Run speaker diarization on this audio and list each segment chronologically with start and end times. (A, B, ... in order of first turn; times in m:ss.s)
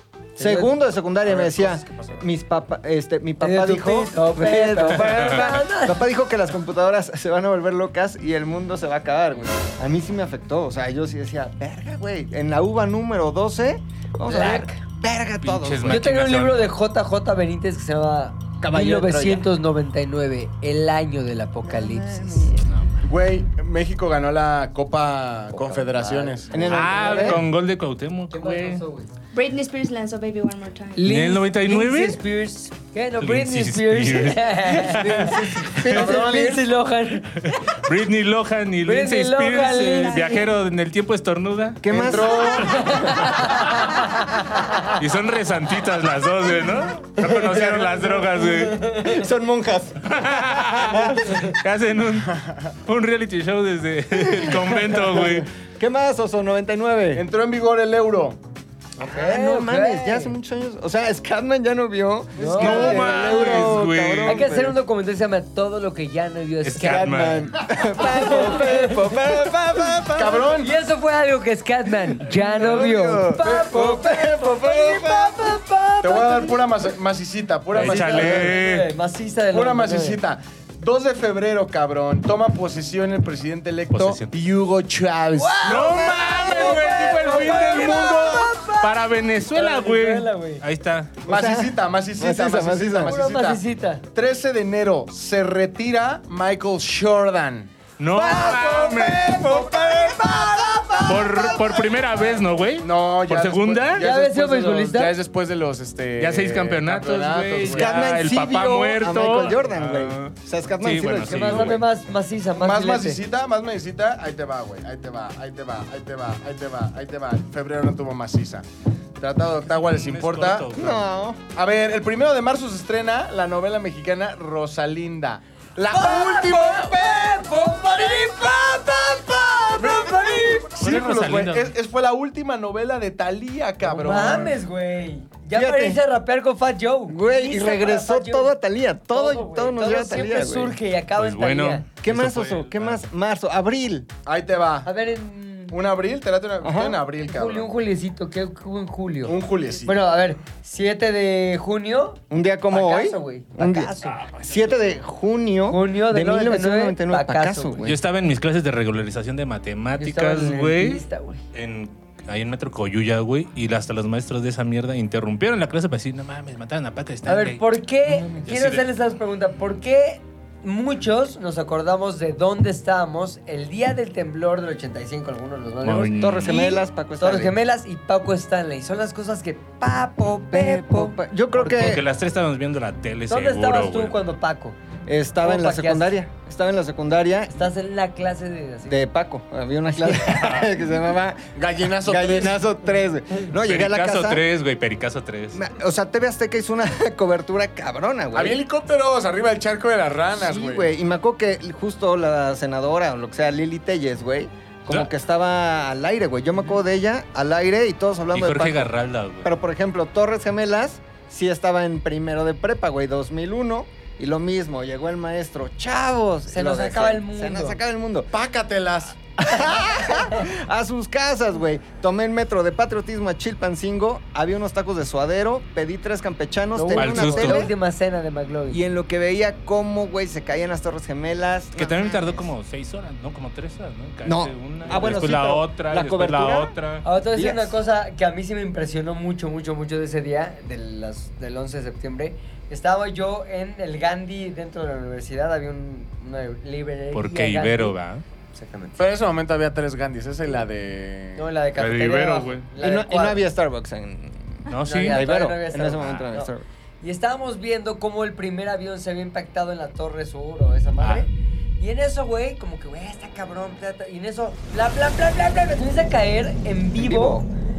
0:00.4-0:00.7 A
0:00.4-0:16.1 B
0:01.2-0:02.2 C
0:03.4-0:06.0 A
0:05.0-0:05.6 D
0:14.2-0:14.8 A
0:15.4-0:16.7 D
0:15.9-0:22.5 A
0:18.6-0:19.5 B
0:21.6-0:22.7 B
0:23.0-0:26.5 C
0:25.5-0:27.4 A
0:26.5-0:27.4 B
0:26.6-0:28.8 D
0:28.3-0:29.1 A
0:29.3-0:31.1 E
0:30.9-0:37.6 A
0:31.0-0:32.2 D
0:33.2-0:36.0 D
0:34.9-0:36.7 B
0:37.4-0:42.4 D
0:38.8-0:40.4 A
0:39.6-0:40.4 E
0:41.8-0:42.9 B
0:41.9-0:43.0 C
0:42.0-0:44.9 A
0:44.9-0:48.9 D
0:47.4-0:49.2 A
0:49.0-0:51.4 B
0:50.0-0:55.5 D
0:52.2-0:52.7 C
0:54.1-0:57.2 B
0:57.1-0:58.4 C
0:59.0-1:00.3 A
0:59.0-1:04.8 B
1:02.4-1:03.6 A
1:02.4-1:03.3 C
1:02.6-1:04.5 D
1:04.2-1:07.1 A
1:06.6-1:07.5 D
1:06.8-1:10.5 B
1:07.8-1:09.5 A
1:10.1-1:10.7 C
1:10.6-1:16.5 A
1:12.2-1:16.5 B
1:13.4-1:14.0 C
1:16.0-1:18.5 C
1:17.7-1:18.9 D
1:17.7-1:20.2 A
1:19.5-1:26.1 C
1:23.9-1:24.4 D
1:25.4-1:30.6 A
1:25.6-1:31.2 D
1:26.0-1:28.0 B
1:31.2-1:33.2 B
1:31.2-1:37.7 C
1:33.0-1:34.0 A
1:38.0-1:39.4 D
1:38.2-1:41.6 A
1:38.3-1:38.6 B
1:38.4-1:39.8 C
1:39.3-1:41.7 B
1:41.0-1:44.0 D
1:42.8-1:48.0 C
1:44.0-1:45.1 A
1:46.2-1:51.8 D
1:47.7-1:51.8 B
1:51.2-1:53.2 A
1:52.6-1:58.6 C
1:59.2-2:00.7 C
1:59.8-2:01.1 D
2:00.7-2:01.4 B
2:01.5-2:07.0 C
2:05.9-2:10.7 A
2:09.8-2:14.6 C
2:10.8-2:11.7 D
2:13.8-2:18.5 A
2:15.5-2:16.0 B
2:17.1-2:20.8 B
2:19.1-2:21.8 A
2:21.2-2:23.0 D
2:22.0-2:24.1 B
2:24.2-2:24.9 C
2:24.8-2:25.8 A
2:25.7-2:27.7 C
2:26.6-2:27.0 B
2:27.2-2:34.2 A
2:29.2-2:30.0 C
2:32.3-2:38.0 B
2:35.7-2:37.9 A
2:37.8-2:48.8 D
2:40.0-2:41.4 A
2:47.2-3:01.2 A
2:55.8-2:56.7 D
2:56.1-2:57.5 B
3:00.5-3:02.0 B
3:01.6-3:04.2 D
3:03.3-3:04.8 A
3:05.1-3:07.5 B
3:05.4-3:06.2 A
3:07.5-3:09.0 A
3:08.9-3:11.5 B
3:10.3-3:10.6 D
3:11.5-3:12.6 C
3:12.0-3:14.4 B
3:13.6-3:15.6 D
3:15.5-3:18.6 B
3:18.3-3:20.9 C
3:20.3-3:28.9 B
3:28.3-3:29.5 D
3:29.4-3:38.3 B
3:36.5-3:37.8 A
3:38.3-3:39.2 C
3:39.4-3:47.7 B
3:46.7-3:48.8 A
3:46.9-3:47.7 D
3:48.7-3:52.5 B
3:51.7-3:57.0 D
3:54.2-3:56.7 B
3:57.0-4:07.9 A
3:57.3-3:57.7 B
4:07.1-4:08.2 D
4:08.5-4:09.0 A
4:09.0-4:11.5 C
4:11.3-4:13.4 A
4:11.8-4:12.6 D
4:12.8-4:16.6 B
4:14.7-4:15.2 D
4:14.8-4:27.4 A
4:27.0-4:27.5 B